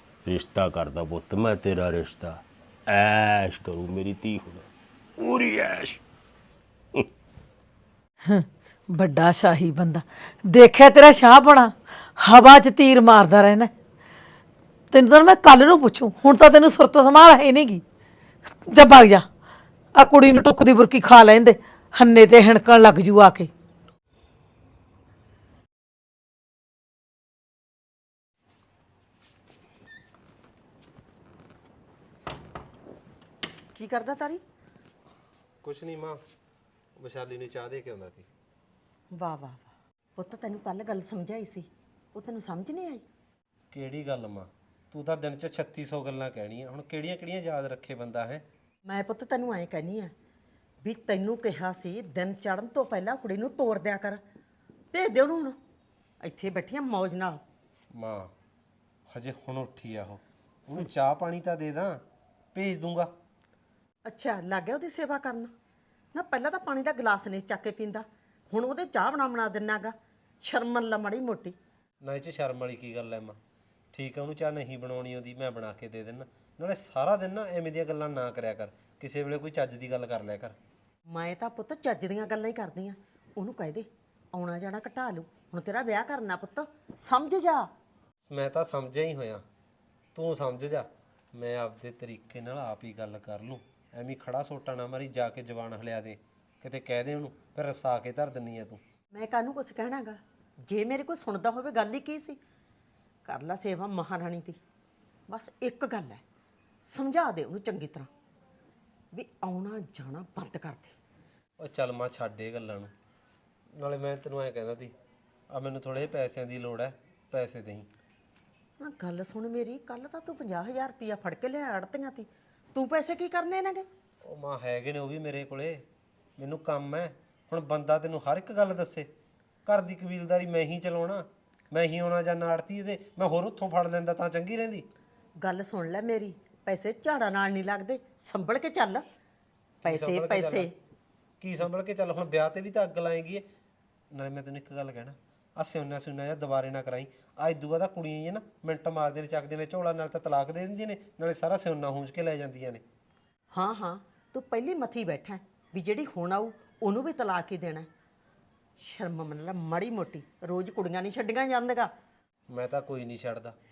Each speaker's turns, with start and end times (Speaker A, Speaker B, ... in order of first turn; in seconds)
Speaker A: 0.2-4.7, 5.2-6.0
Speaker B: 8.3-13.7, 14.9-17.8, 18.7-19.3, 19.9-23.5
Speaker C: 33.7-34.4, 39.1-43.0, 48.9-50.1, 50.8-54.2, 54.9-55.6, 56.2-57.4, 64.0-65.5, 66.1-71.5, 81.1-87.7, 99.1-102.4, 103.2-104.6, 105.3-106.2, 106.8-108.1, 109.1-111.0, 118.8-123.9, 135.4-139.0, 139.8-140.7, 153.5-157.9, 158.8-161.9
Speaker D: 35.6-36.2, 37.0-38.3, 43.7-48.4, 57.9-58.3, 59.1-62.0, 62.5-63.1, 72.0-73.4, 73.9-80.5, 88.3-89.4, 90.1-98.8, 111.6-112.9, 113.7-114.9, 115.5-117.9, 124.2-125.8, 126.4-129.1, 129.7-134.8, 139.8-140.7, 141.4-143.4, 144.1-152.8, 162.5-163.5